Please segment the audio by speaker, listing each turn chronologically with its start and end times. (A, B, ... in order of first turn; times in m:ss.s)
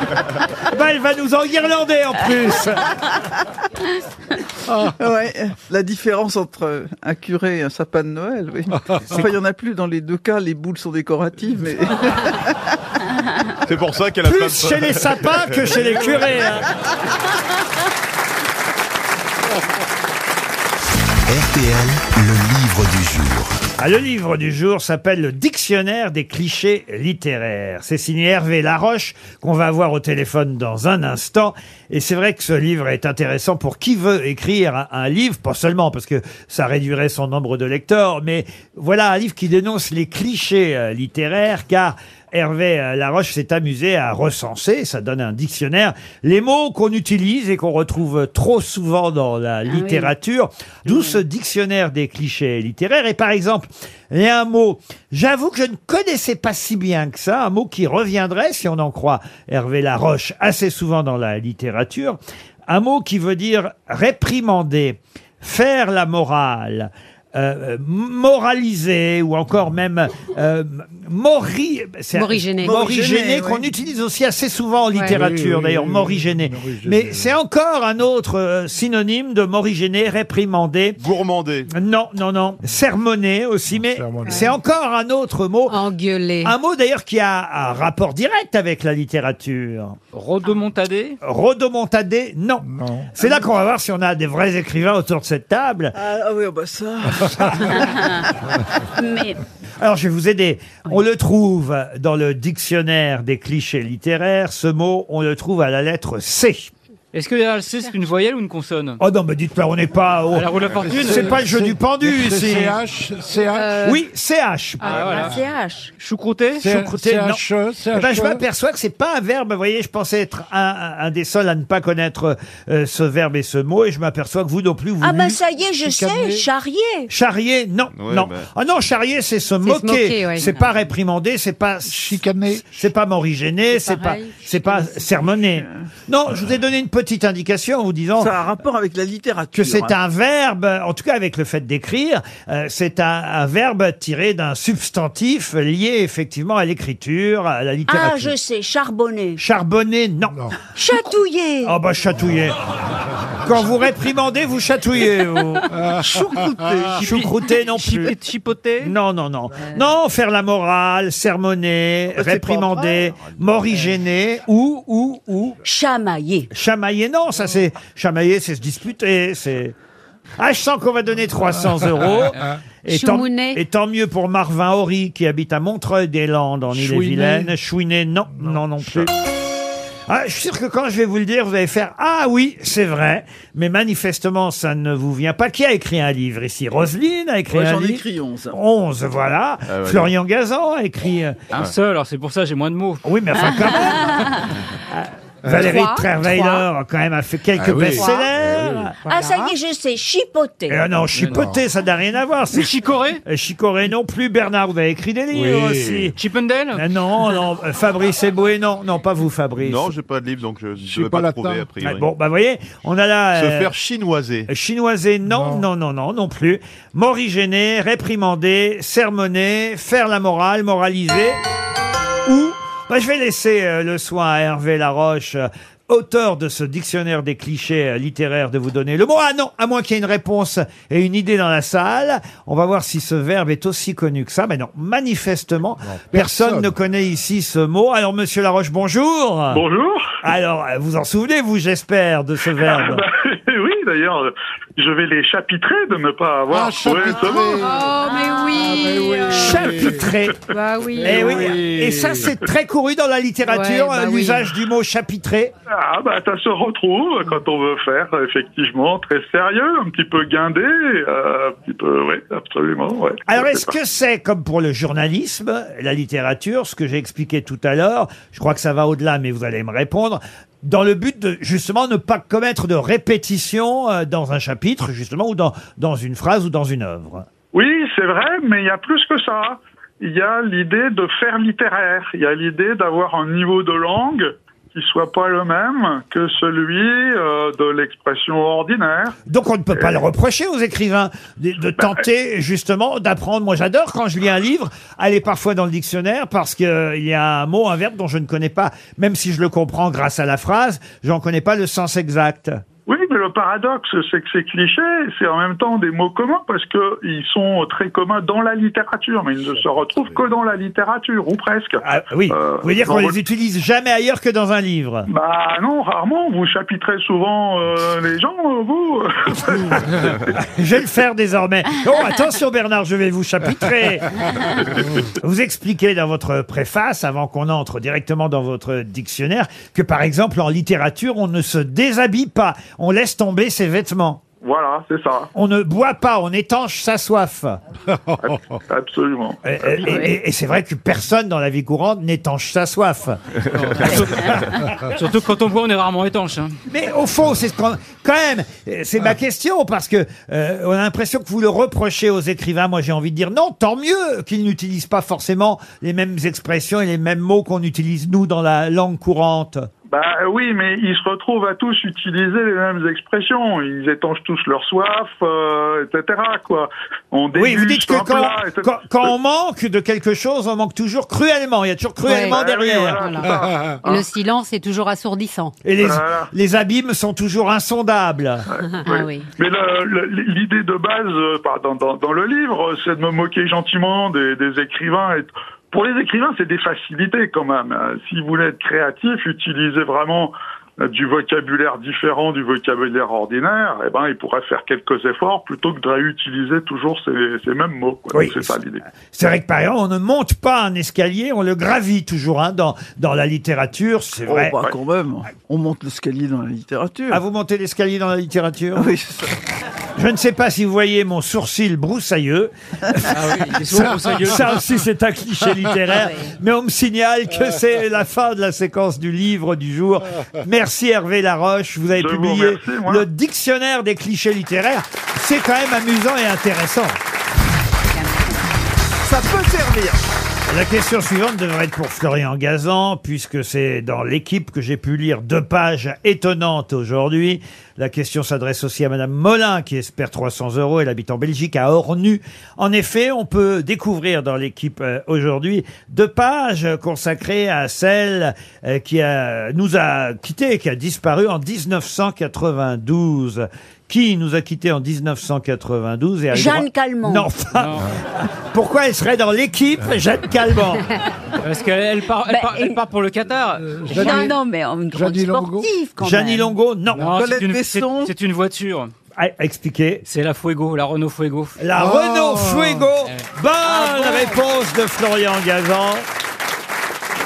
0:00.7-0:02.8 A
0:05.0-0:12.5 B
0:13.6-0:16.0 C
0:14.2-0:16.7 A
0:21.2-0:23.6 D
0:23.8-1:21.0 A
0:49.7-0:50.1 E
0:50.8-0:51.2 E
1:12.1-1:12.8 F
1:12.6-1:13.7 B
1:15.0-1:17.4 G
1:21.0-1:21.7 C
1:21.7-1:25.8 A
1:23.7-1:24.6 G
1:25.7-1:26.5 F
1:26.4-1:30.0 A
1:30.1-1:31.2 H
1:31.2-1:32.6 A
1:32.6-1:33.2 G
1:33.2-1:36.0 A
1:35.9-1:37.9 B
1:37.8-1:38.2 E
1:39.0-1:39.4 E
1:39.8-1:46.7 A
1:47.1-1:49.0 H
1:49.0-1:52.8 A
1:50.3-1:51.4 H
1:50.9-1:53.8 G
1:53.6-1:54.0 F
1:53.8-1:55.1 A
1:54.8-1:55.4 H
1:55.2-1:55.9 E
1:56.0-1:56.7 H
1:56.6-1:58.4 G
1:56.7-1:57.4 A
1:57.9-2:05.4 A
2:05.0-2:07.1 E
2:05.8-2:06.5 G
2:07.1-2:18.3 A
2:07.9-2:08.5 C
2:09.6-2:10.6 F
2:11.9-2:12.7 G
2:13.7-2:15.0 F
2:15.3-2:15.8 B
2:18.2-2:20.0 B
2:19.5-2:28.3 A
2:27.9-2:29.4 E
2:29.4-2:30.4 A
2:30.7-2:31.8 E
2:31.6-2:32.6 A
2:33.4-2:35.7 A
2:35.7-2:36.3 G
2:36.0-2:37.1 B
2:37.0-2:38.2 A
2:37.0-2:38.9 H
2:38.8-2:45.6 A
2:42.1-2:43.2 B
2:45.6-2:46.5 E
2:46.5-2:49.7 A
2:50.4-2:59.1 A
2:51.5-2:52.5 G
2:52.9-2:53.6 F
2:56.7-2:57.5 G
2:58.3-2:59.1 G
3:00.1-3:11.4 A
3:07.5-3:08.5 B
3:09.7-3:10.1 C
3:11.5-3:13.0 H
3:13.0-3:14.3 A
3:13.4-3:14.3 E
3:14.9-3:18.9 A
3:15.4-3:15.7 G
3:15.5-3:16.6 F
3:17.6-3:18.9 G
3:18.0-3:18.3 F
3:19.0-3:20.8 E
3:19.1-3:19.5 F
3:20.7-3:26.1 A
3:21.2-3:21.6 G
3:21.2-3:21.4 H
3:22.5-3:23.2 H
3:25.3-3:26.1 G
3:26.1-3:26.8 H
3:26.7-3:29.9 A
3:29.6-3:32.1 C
3:30.9-3:31.7 G
3:31.8-3:33.7 A
3:33.3-3:34.5 C
3:34.5-3:41.4 A
3:35.2-3:35.6 G
3:42.2-3:59.6 A
3:55.8-3:56.7 G
3:59.5-4:00.2 I
4:00.2-4:03.0 A
4:02.6-4:07.6 I
4:06.5-4:10.1 G
4:07.4-4:09.8 F
4:09.3-4:10.4 A
4:10.5-4:11.6 F
4:11.0-4:12.3 G
4:11.0-4:15.5 A
4:13.5-4:14.5 F
4:15.7-4:23.7 I
4:23.3-4:37.2 A
4:37.5-4:49.2 I
4:49.3-5:02.6 A
5:02.9-5:13.2 I
5:11.8-5:15.1 A
5:15.1-5:19.8 I
5:20.4-5:24.2 A
5:25.2-5:34.2 A
5:34.4-5:35.3 I
5:35.3-5:37.6 A
5:37.9-5:38.5 G
5:38.2-5:39.4 I
5:39.4-5:43.2 A
5:43.5-5:46.6 H
5:43.8-5:44.4 A
5:46.7-5:59.7 A
5:59.9-6:09.1 I
6:07.3-6:13.1 A
6:12.0-6:12.4 F
6:12.3-6:14.0 I
6:13.0-6:15.5 F
6:13.4-6:13.7 G
6:15.6-6:18.4 A
6:15.8-6:16.3 I
6:18.5-6:38.8 I
6:18.7-6:19.3 F
6:38.1-6:38.6 A
6:39.1-6:44.6 A
6:44.2-6:47.2 B
6:47.1-6:48.9 A
6:48.7-6:49.3 B
6:50.0-7:07.0 A
6:53.1-6:54.5 H
6:56.0-6:56.3 E
7:02.0-7:03.0 I
7:09.0-7:10.0 B
7:10.5-7:40.9 A
7:36.3-7:37.3 E
7:37.5-7:37.9 H
7:41.4-7:44.3 H
7:42.3-7:42.8 E
7:43.6-7:44.4 G
7:43.9-7:46.5 E
7:44.9-7:45.7 G
7:46.0-7:47.1 A
7:46.9-7:48.9 H
7:47.1-7:48.1 B
7:49.2-7:50.0 A
7:50.0-7:51.6 H
7:51.6-7:56.1 A
7:51.8-7:52.9 G
7:53.0-7:53.3 H